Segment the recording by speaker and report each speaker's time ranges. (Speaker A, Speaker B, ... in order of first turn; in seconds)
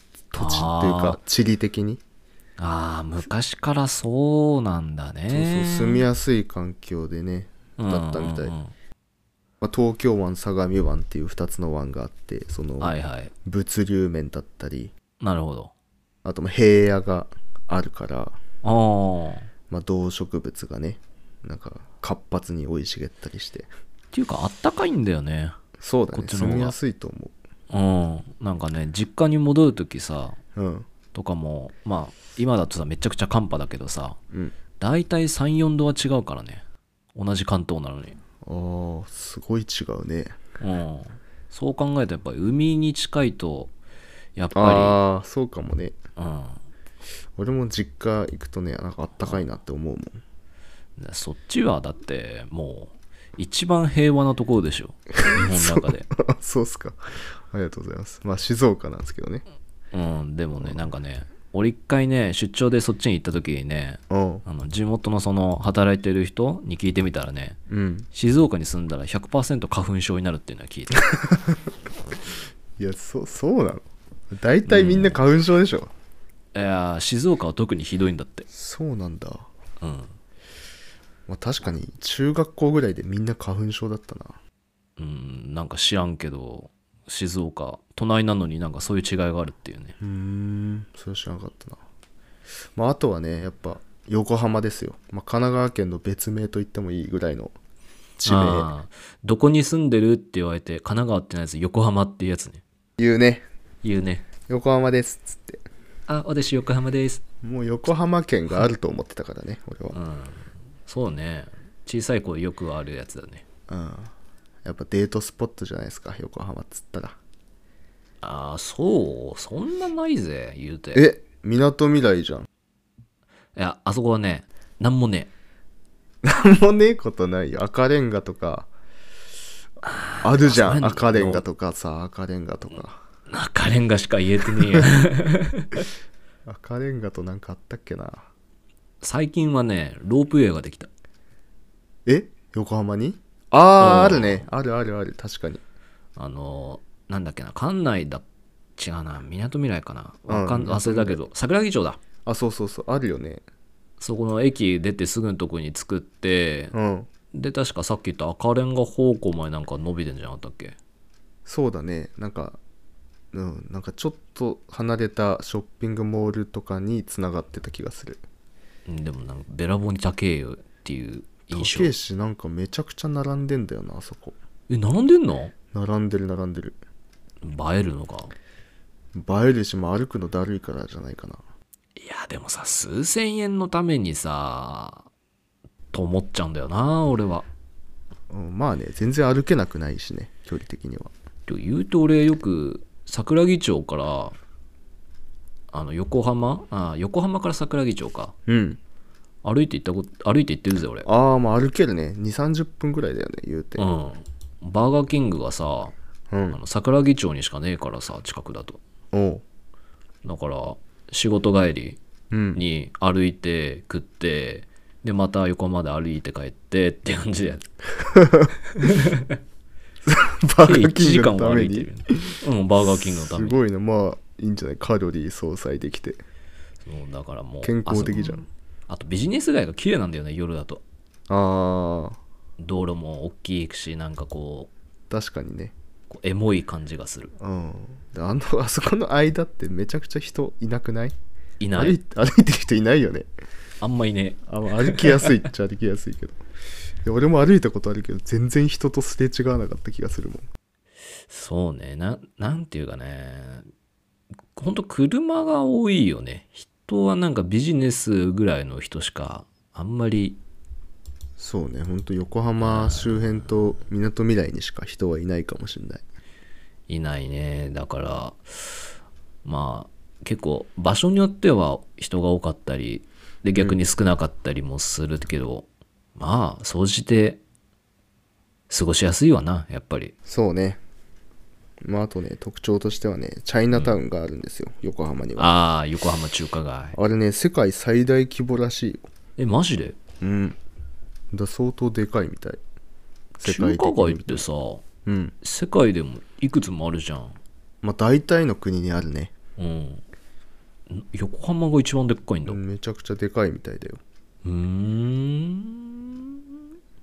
Speaker A: 0.3-2.0, 5.3-8.6, 9.6-12.9, 13.5-14.9, 16.2-18.4, 19.7-23.7, 25.8-27.3, 30.6-30.9, 38.4-40.4, 44.5-46.0, 47.4-50.2, 55.2-59.5, 60.6-60.9, 64.1-64.4, 67.7-68.1, 72.8-75.9, 78.5-79.5, 81.3-84.4, 90.0-91.8, 92.8-97.5, 98.2-98.7, 103.0-103.5, 104.5-105.6, 107.4-110.0, 113.7-114.1, 114.6-117.2, 121.0-122.5, 126.2-128.7, 130.2-133.0, 136.5-138.3, 142.1-145.6, 150.3-151.2, 152.3-153.4, 156.7-157.1, 161.5-162.6, 163.3-168.2, 171.5-174.3, 175.7-176.8, 179.2-181.4, 188.3-191.1, 198.5-198.8, 201.1-203.9, 206.3-206.6, 209.1-209.4, 212.3-212.6, 220.1-226.2, 227.6-228.4, 231.3-232.2, 235.1-235.7, 237.4-241.2, 241.7-243.3, 244.5-246.4, 247.1-250.5, 261.4-266.0, 280.3-280.8, 281.8-285.6, 286.9-289.1, 290.2-290.6, 291.3-292.6, 293.4-294.4, 295.1-295.4, 297.8-299.3, 302.4-304.0
Speaker B: 0.3-1.2, 2.6-6.1, 7.8-8.7, 12.8-13.3, 15.2-15.7, 18.6-19.5, 24.1-25.6, 26.1-26.8, 27.7-30.4, 31.1-34.2, 34.8-36.6, 37.1-38.2, 40.6-43.7, 44.4-45.0, 46.2-46.6, 51.0-56.1, 59.9-67.6, 68.1-71.1, 74.7-75.2, 76.5-78.5, 79.8-80.2, 85.0-90.0, 98.2-102.6, 103.8-104.3, 106.1-107.2, 109.9-113.4, 118.2-121.1, 123.6-125.3, 129.8-131.4, 133.3-135.8, 139.0-140.9, 143.8-144.5, 146.2-148.2, 148.8-152.0, 154.0-156.7, 157.3-160.8, 168.9-171.9, 174.7-175.5, 177.4-178.3, 182.0-185.1, 185.9-187.5, 191.5-194.4, 195.7-198.3, 199.4-201.1, 203.8-205.9, 206.5-208.8, 210.2-212.0, 212.6-217.7, 218.8-219.4, 220.7-223.6, 226.8-230.8, 232.6-234.7, 236.1-237.3, 241.6-242.0, 243.8-245.3, 251.3-253.7, 254.6-260.4, 262.6-263.7, 266.9-268.8, 269.4-277.4, 278.7-280.1, 285.4-287.0, 289.4-290.0, 293.4-294.8, 295.4-297.4, 299.6-300.0, 300.9-302.6, 304.4-306.4